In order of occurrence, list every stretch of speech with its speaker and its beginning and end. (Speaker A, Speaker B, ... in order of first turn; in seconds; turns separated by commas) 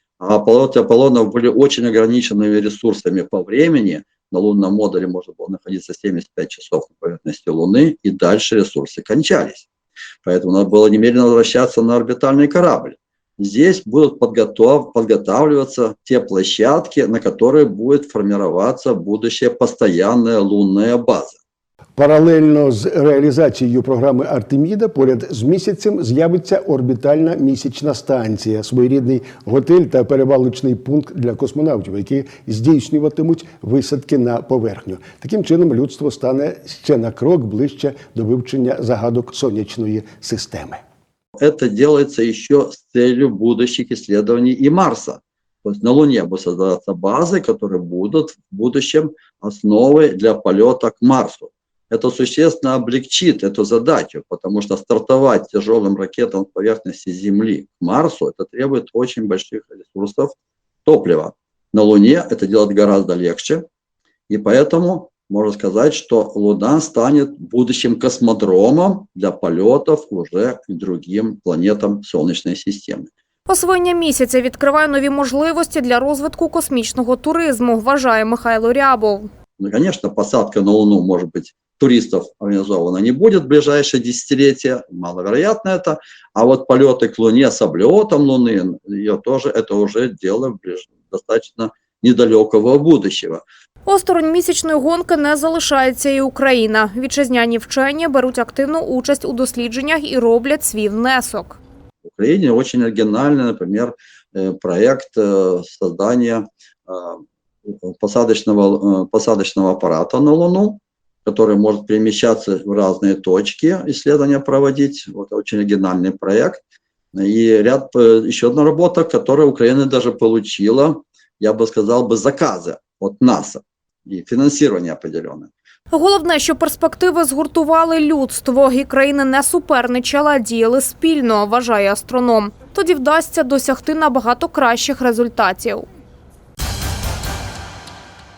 Speaker A: 0.2-9.7, Speaker A: 10.2-21.4, Speaker B: 22.0-40.8, Speaker A: 41.4-60.3, Speaker A: 60.9-63.6, Speaker A: 64.3-73.1, Speaker C: 73.5-79.3, Speaker A: 79.6-93.4, Speaker C: 93.9-101.6, Speaker A: 102.1-116.6, Speaker A: 117.1-125.5, Speaker C: 125.9-135.9